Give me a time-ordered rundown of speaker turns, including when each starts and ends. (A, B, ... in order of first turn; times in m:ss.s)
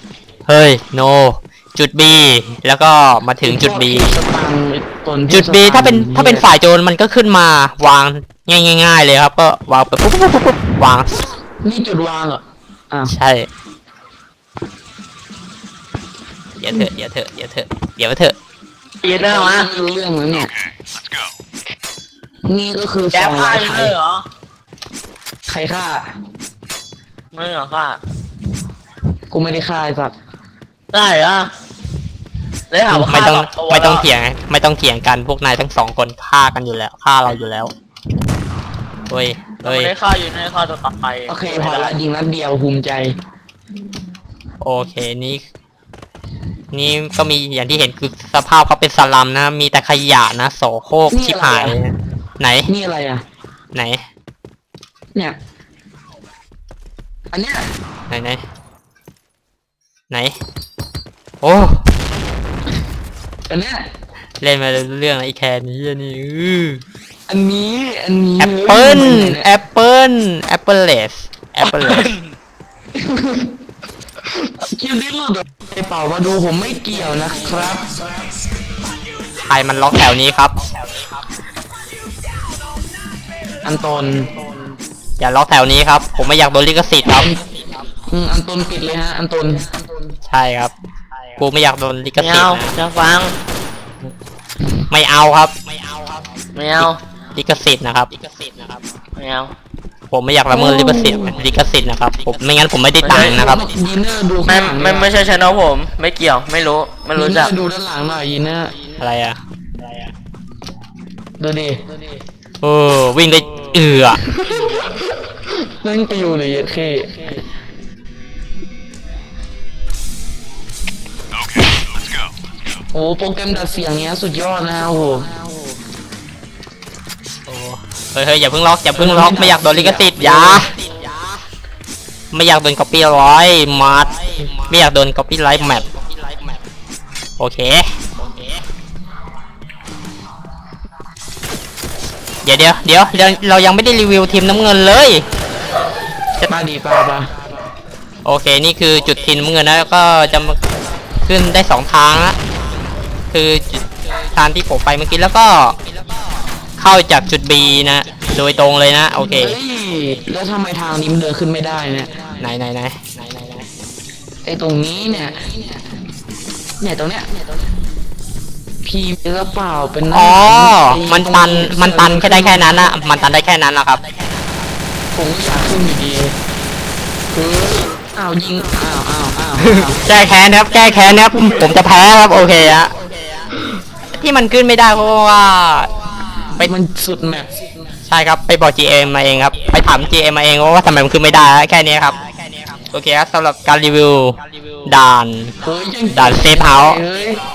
0:00.5-0:04.2 A
0:03.4-0:06.5 B
0:05.3-0:11.2 A
0:11.6-0:13.1 B
0:13.1-0:13.5 A
0:16.6-0:18.3 A
0:19.0-0:19.7 C
0:19.1-0:20.5 B
0:22.4-0:23.9 B
0:23.1-0:24.2 C
0:25.5-0:26.1 B
0:27.3-0:28.0 C
0:29.3-0:30.1 B
0:30.9-0:31.5 C
0:32.7-0:34.0 C
0:32.9-0:37.7 A
0:39.1-0:39.9 A
0:39.6-0:42.0 C
0:41.3-0:43.1 B
0:44.6-0:45.4 A
0:46.7-0:52.7 A
0:51.1-0:51.8 B
0:52.6-0:53.2 B
0:53.7-0:54.0 A
0:57.3-0:57.6 B
0:58.1-0:58.4 A
1:00.1-1:00.4 A
1:01.4-1:01.9 A
1:03.5-1:03.9 B
1:04.4-1:06.8 A
1:07.3-1:09.4 B
1:08.4-1:12.1 A
1:11.8-1:12.2 C
1:13.0-1:13.5 B
1:14.4-1:18.0 B
1:19.4-1:20.5 A
1:23.6-1:24.4 B
1:25.2-1:27.4 A
1:28.1-1:29.7 B
1:30.3-1:30.7 A
1:31.4-1:32.8 A
1:32.2-1:33.4 C
1:34.9-1:35.7 A
1:36.5-1:37.0 C
1:37.3-1:38.1 A
1:39.2-1:39.5 C
1:40.1-1:43.7 A
1:40.5-1:41.4 B
1:43.0-1:43.4 C
1:43.1-1:45.1 B
1:44.5-1:47.5 C
1:47.2-1:48.7 B
1:49.0-1:49.4 A
1:51.4-1:51.8 B
1:52.6-1:54.2 A
1:54.2-1:54.9 B
1:55.5-1:57.3 B
2:02.9-2:05.3 B
2:07.5-2:11.1 A
2:09.0-2:10.7 B
2:12.3-2:15.9 A
2:17.4-2:18.1 A
2:22.4-2:25.2 A
2:26.4-2:27.3 B
2:28.2-2:30.6 A
2:31.2-2:32.4 A
2:33.3-2:35.8 A
2:36.8-2:39.6 A
2:39.2-2:42.2 B
2:42.4-2:43.2 A
2:44.4-2:45.5 B
2:46.8-2:47.4 B
2:48.8-2:52.9 B
2:50.1-2:54.0 A
2:55.1-2:56.3 B
2:57.3-3:00.0 B
2:59.6-3:03.0 A
3:04.1-3:05.9 A
3:06.6-3:07.5 B
3:08.1-3:12.2 A
3:12.8-3:15.5 A
3:15.6-3:17.4 B
3:16.1-3:17.0 A